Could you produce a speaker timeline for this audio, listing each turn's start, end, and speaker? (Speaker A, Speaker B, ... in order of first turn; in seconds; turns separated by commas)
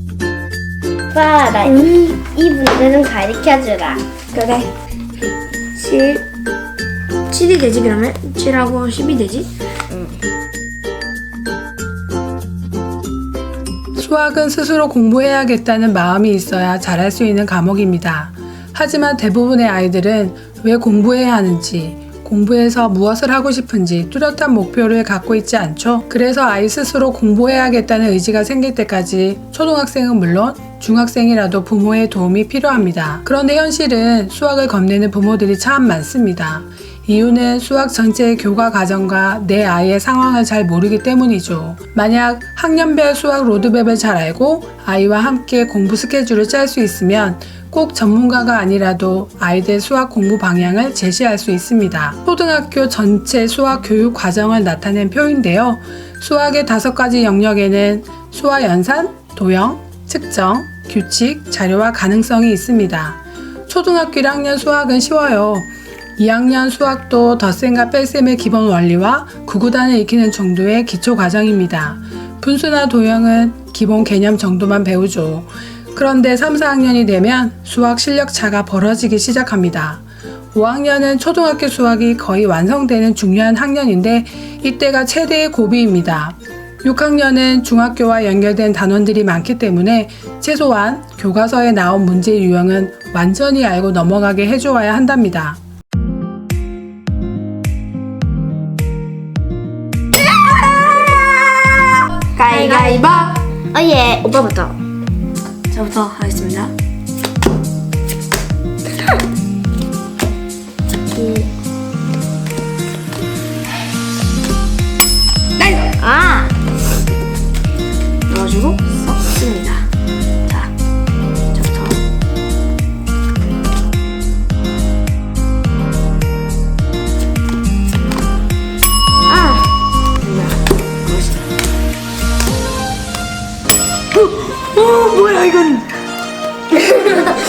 Speaker A: 1.1-4.1, Speaker B: 4.3-4.7, Speaker B: 5.8-6.2, Speaker B: 7.3-9.5, Speaker C: 14.0-95.6, Speaker A: 100.6-101.1, Speaker B: 102.4-103.3, Speaker A: 102.4-104.8, Speaker B: 105.7-106.7, Speaker A: 115.9-116.5, Speaker B: 118.3-119.9, Speaker B: 121.5-122.0, Speaker B: 129.3-129.6, Speaker B: 130.3-130.5, Speaker B: 131.1-131.4, Speaker B: 134.3-135.9